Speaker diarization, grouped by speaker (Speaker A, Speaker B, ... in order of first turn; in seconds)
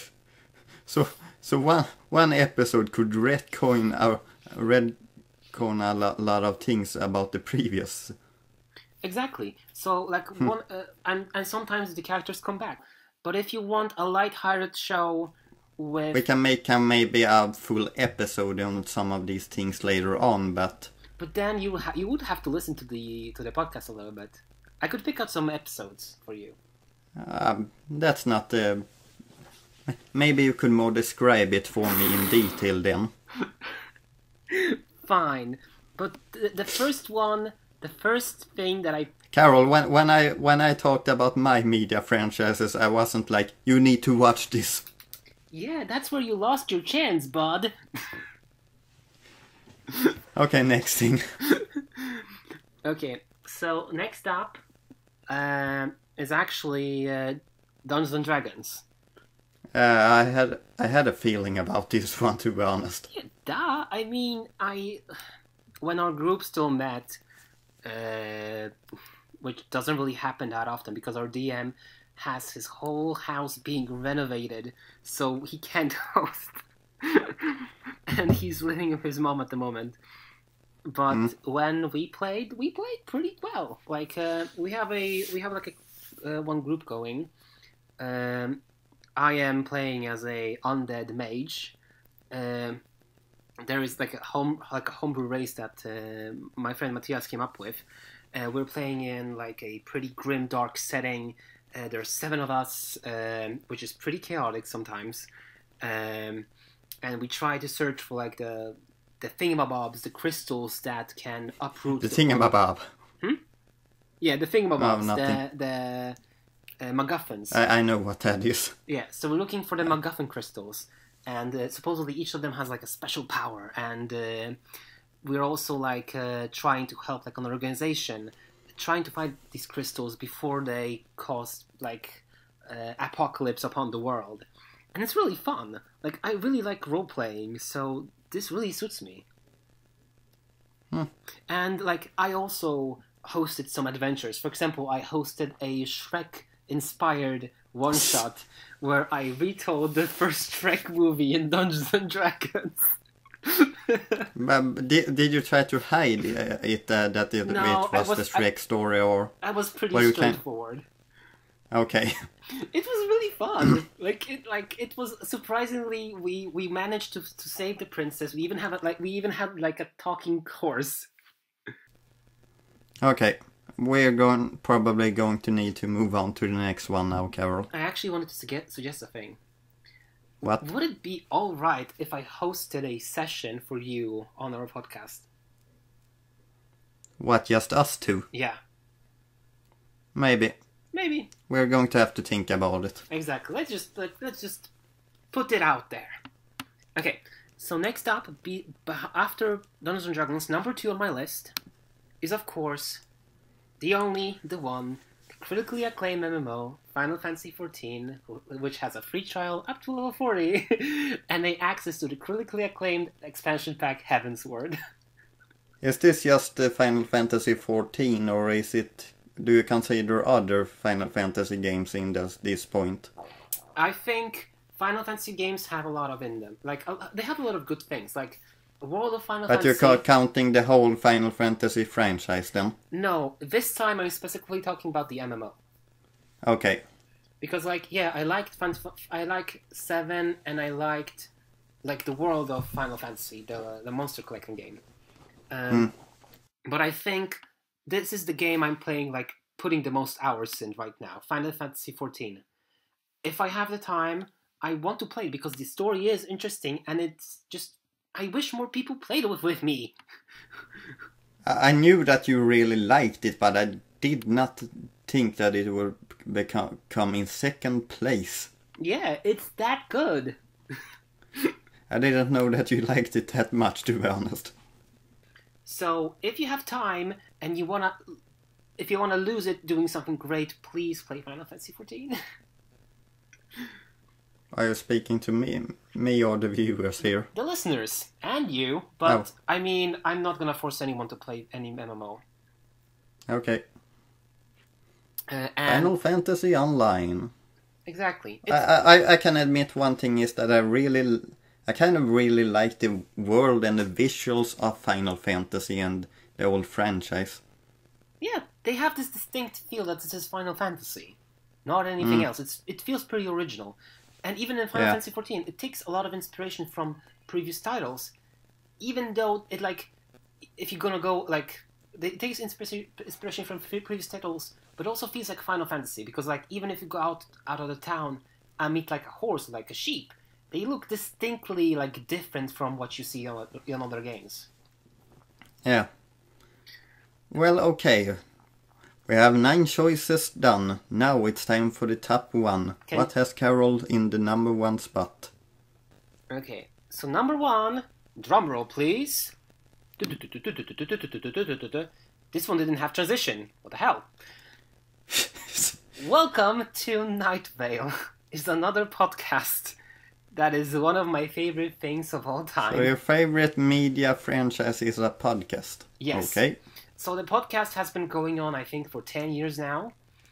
Speaker A: 0.9-5.0, 5.5-8.2, 16.1-20.9, 27.2-28.9, 29.9-33.1, 39.3-44.9, 50.4-51.2, 59.7-63.1, 112.0-112.9, 114.8-115.4, 117.5-118.8, 154.4-159.3, 159.9-160.4, 161.7-162.2, 173.0-177.7, 187.2-188.3, 190.2-190.6, 191.5-193.0, 215.8-223.1, 229.5-232.8, 236.4-236.8, 261.4-268.5, 271.9-274.5, 284.5-287.3, 293.3-293.6, 295.7-297.3, 298.5-307.4, 312.0-312.3, 337.3-338.2, 339.1-345.3, 355.1-355.8, 362.7-366.6
Speaker B: 9.0-16.2, 21.2-26.6, 34.5-39.1, 45.5-48.2, 51.5-52.2, 52.9-54.6, 55.3-58.8, 63.1-65.0, 65.8-67.2, 67.8-68.7, 69.4-80.0, 80.9-87.3, 88.0-88.6, 89.2-91.8, 92.3-92.8, 93.6-105.3, 105.8-106.5, 107.0-112.5, 114.2-116.2, 116.8-117.6, 118.9-124.6, 125.2-139.3, 141.5-152.9, 153.4-154.3, 157.4-158.5, 159.4-160.8, 162.5-171.1, 177.7-179.4, 180.4-185.3, 188.3-188.6, 190.9-191.3, 193.1-194.7, 195.3-196.2, 197.0-201.5, 202.2-203.0, 203.8-214.8, 223.8-230.0, 232.9-235.6, 237.4-241.3, 241.8-244.8, 245.5-245.9, 246.7-252.4, 253.2-259.9, 268.8-270.4, 275.6-278.0, 278.8-282.2, 287.3-292.2, 295.3-295.9, 297.9-298.6, 308.2-318.1, 318.8-319.9, 320.6-334.5, 346.3-349.3, 350.0-354.1, 356.0-359.8, 360.3-362.9, 366.0-366.4, 367.0-369.9